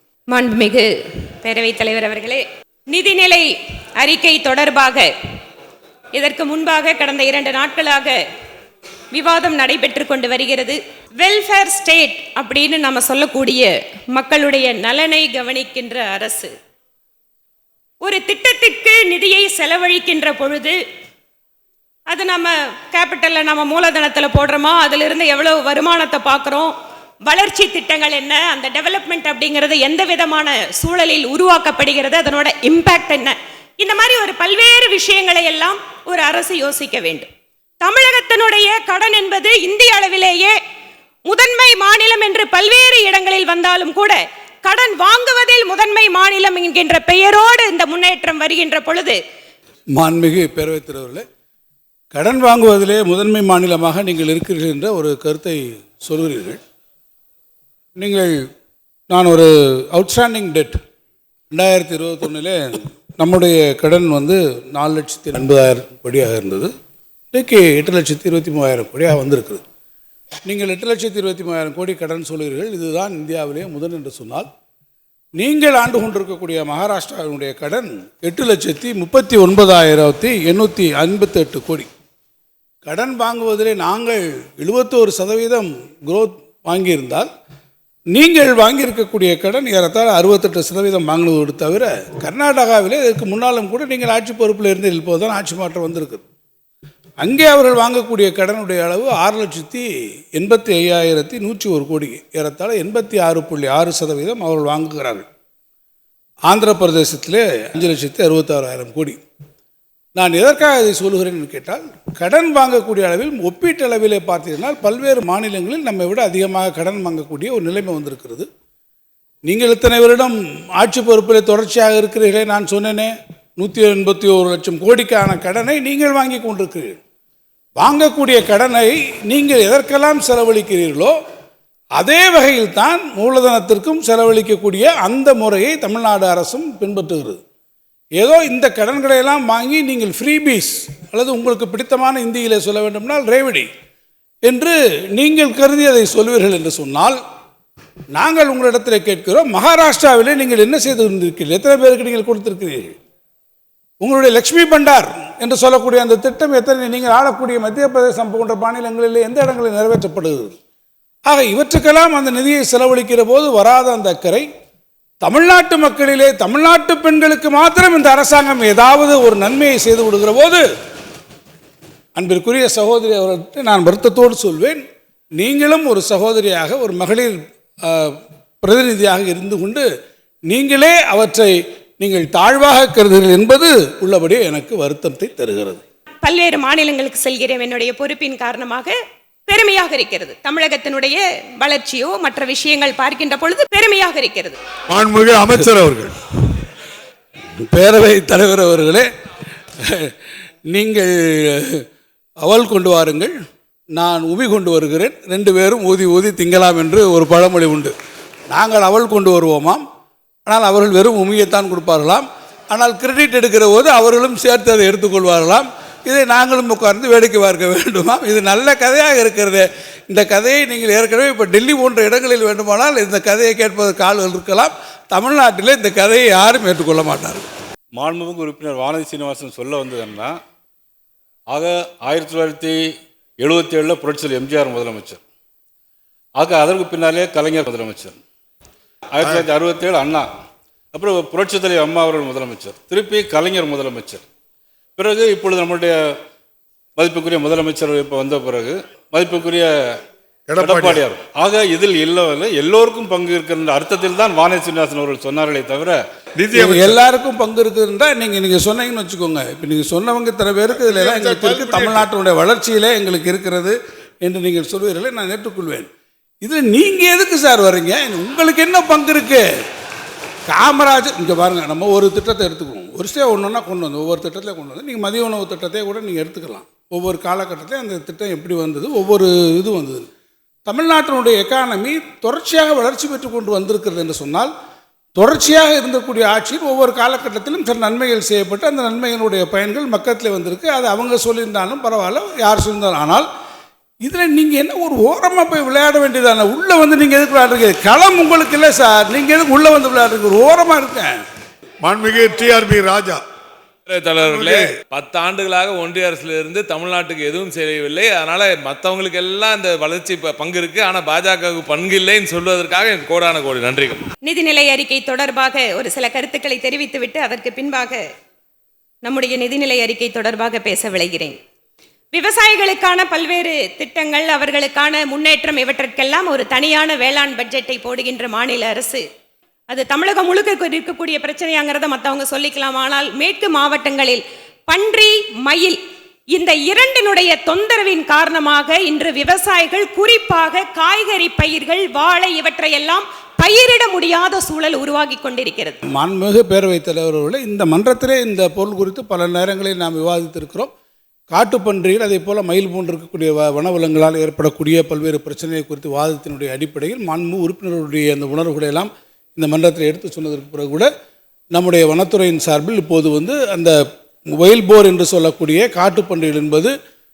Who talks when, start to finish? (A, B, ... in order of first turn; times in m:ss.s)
0:00.3-0:00.9 A
0:01.4-0:05.1 A
0:06.1-0:08.2 A
0:09.1-0:16.5 A
0:18.0-0:20.8 A
0:22.1-0:26.7 A
0:27.2-0:37.3 A
0:37.8-0:40.6 A
0:41.2-0:49.2 A
0:49.9-0:51.2 B
0:52.1-0:56.6 B
0:58.0-0:58.4 B
0:59.1-1:00.8 B
1:01.5-1:06.7 B
1:07.3-1:09.6 B
1:10.4-1:14.5 B
1:15.4-1:21.9 B
1:22.8-1:27.3 B
1:28.1-1:36.2 B
1:37.2-1:45.2 B
1:46.5-1:49.2 B
1:50.2-1:58.5 B
1:59.4-2:07.0 B
2:07.8-2:11.2 B
2:11.9-2:17.4 B
2:18.2-2:23.7 B
2:24.4-2:27.2 B
2:28.1-2:32.9 B
2:34.0-2:40.6 B
2:41.2-2:44.5 B
2:45.2-2:50.6 B
2:52.2-2:54.8 B
2:55.4-2:59.9 B
3:00.5-3:05.8 B
3:06.2-3:09.0 A
3:09.5-3:14.6 A
3:14.9-3:16.1 C
3:17.6-3:19.0 B
3:19.8-3:20.1 B
3:20.7-3:21.8 B
3:22.4-3:23.3 B
3:23.9-3:27.9 B
3:28.5-3:29.8 B
3:30.5-3:47.4 B
3:48.0-3:50.3 D
3:51.5-3:52.8 D
3:53.4-3:55.2 D
3:56.4-3:58.1 D
3:59.2-4:00.3 D
4:00.9-4:04.2 D
4:05.0-4:06.1 D
4:07.0-4:09.7 D
4:10.5-4:11.0 C
4:11.0-4:16.0 D
4:16.4-4:16.8 C
4:16.5-4:25.9 B
4:20.9-4:22.0 C
4:26.4-4:29.5 B
4:30.5-4:40.1 B
4:40.7-4:44.5 B
4:45.2-4:53.3 B
4:54.0-5:01.2 B
5:01.8-5:03.2 C
5:03.9-5:14.0 E
5:04.2-5:04.7 C
5:14.2-5:18.0 A
5:19.0-5:21.4 A
5:22.1-5:29.0 A
5:29.7-5:35.8 A
5:36.3-5:45.8 A
5:45.9-5:50.7 B
5:51.3-6:00.9 B
6:01.5-6:03.8 B
6:04.3-6:06.7 B